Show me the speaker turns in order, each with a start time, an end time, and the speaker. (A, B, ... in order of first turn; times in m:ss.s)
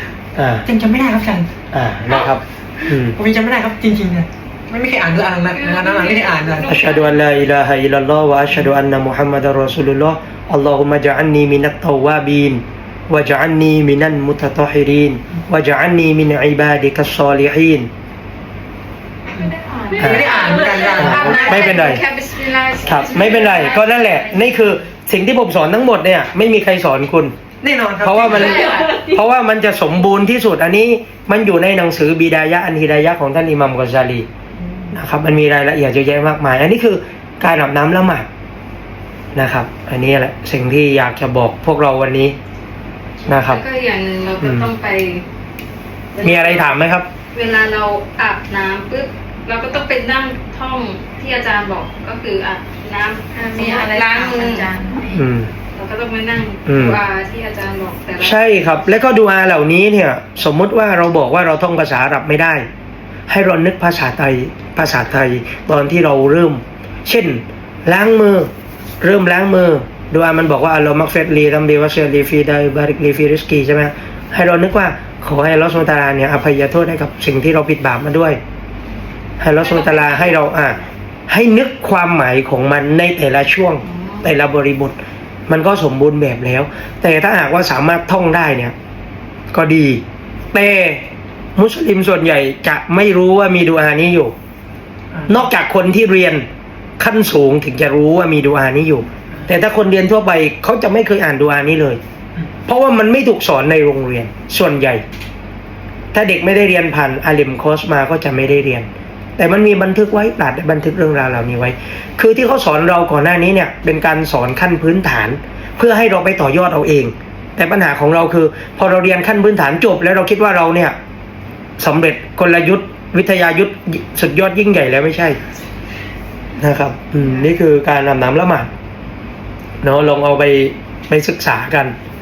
0:00.4-0:00.6 A
0:00.6-0:01.5 B
0:01.7-0:03.2 A
0:03.1-0:06.8 B
0:05.6-0:07.1 C
0:06.6-0:17.9 A
0:19.3-0:21.8 B
0:19.4-0:24.4 C
0:20.0-0:20.2 A
0:20.3-0:23.9 D
0:21.0-0:22.0 A
0:22.8-0:27.3 A
0:27.6-0:28.9 B
0:28.0-0:34.3 A
0:28.2-0:29.1 C
0:34.9-0:38.3 A
0:39.3-0:42.4 A
0:43.3-0:43.6 A
0:43.3-0:45.2 C
0:44.4-0:44.7 A
0:46.1-0:46.8 C
0:46.2-0:47.1 A
0:47.3-0:54.7 C
0:53.3-0:55.2 D
0:55.1-0:55.5 A
0:55.7-0:58.5 C
0:56.6-0:57.0 A
0:58.2-1:02.6 A
1:03.3-1:08.5 A
1:09.0-1:18.4 A
1:19.4-1:25.0 A
1:19.6-1:20.8 C
1:23.8-1:24.3 C
1:25.5-1:28.7 A
1:29.5-1:30.0 A
1:30.5-1:34.3 A
1:35.3-1:36.4 A
1:37.0-1:42.0 A
1:42.6-1:45.0 A
1:46.1-2:01.0 A
2:01.8-2:05.4 A
2:06.6-2:08.7 A
2:09.8-2:11.9 A